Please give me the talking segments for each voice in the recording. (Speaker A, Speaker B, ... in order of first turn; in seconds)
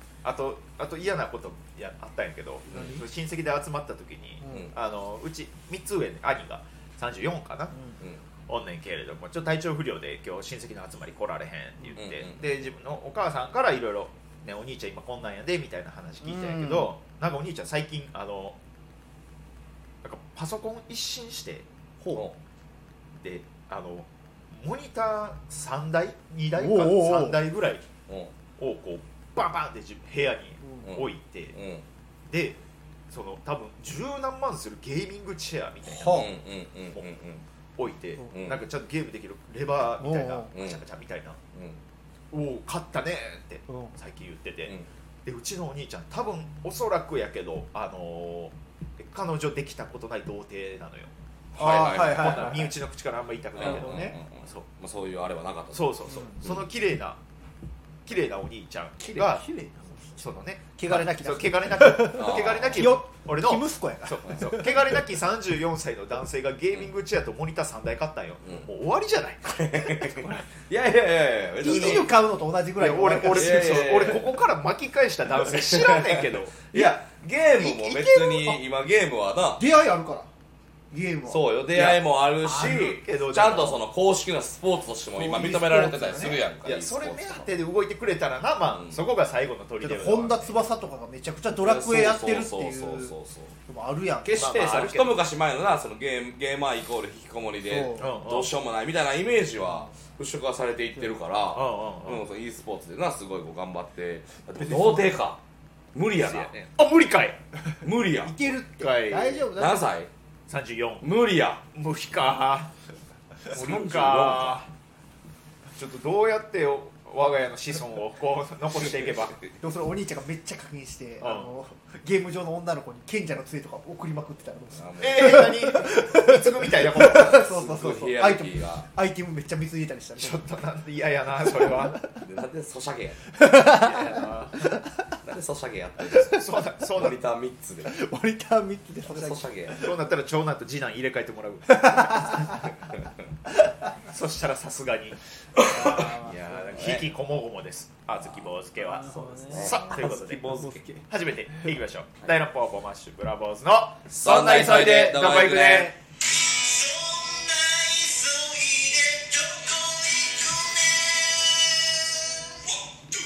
Speaker A: 0.2-7.8, 8.5-18.6, 20.0-21.6, 23.2-27.8, 28.6-31.6, 32.3-32.6, 33.1-36.3, 37.8-41.4, 42.3-54.7, 55.7-57.2, 58.0-59.4, 60.2-70.3, 71.7-72.1, 72.8-76.7, 81.7-83.8, 86.6-90.5, 94.3-95.2, 98.0-98.5, 101.5-102.2, 106.2-107.4, 108.8-109.5, 110.5-111.1, 111.7-112.7, 113.5-114.7, 115.7-119.4, 121.2-121.5, 125.0-127.5, 130.2-132.0, 133.7-134.6, 136.3-137.2, 139.8-142.6, 144.1-150.5, 151.1-155.9, 156.5-161.8
Speaker B: 2.7-3.0, 12.0-12.4, 28.1-28.3, 30.8-31.8, 36.0-37.4, 38.3-38.6, 40.5-40.8, 41.5-41.8, 51.5-52.6, 53.6-56.6, 62.1-63.0, 69.5-72.1, 73.3-74.4, 75.5-79.6, 81.3-87.5, 88.7-89.0, 91.6-93.5, 94.2-105.4, 105.9-106.5, 107.8-108.5, 109.5-110.1, 111.0-111.6, 113.5-114.6, 124.8-125.5, 127.0-128.9, 132.2-133.3, 135.2-136.4, 136.9-137.9, 139.1-139.9, 145.6-147.1, 149.1-150.9, 154.1-155.9
Speaker C: 4.4-4.7, 16.2-16.9, 22.0-22.3, 26.6-27.4, 35.9-36.3, 40.0-40.5, 43.7-43.9, 51.6-52.7, 53.6-54.2, 59.0-60.2, 60.7-64.8, 71.6-74.1, 77.6-78.6, 79.6-80.3, 80.9-81.5, 85.2-86.4, 89.8-93.1, 93.7-94.5, 97.6-98.1, 104.6-105.1, 108.2-109.9, 119.6-130.4, 133.3-134.9, 137.8-139.9, 141.7-142.7, 145.6-146.8, 148.9-149.9, 150.6-151.0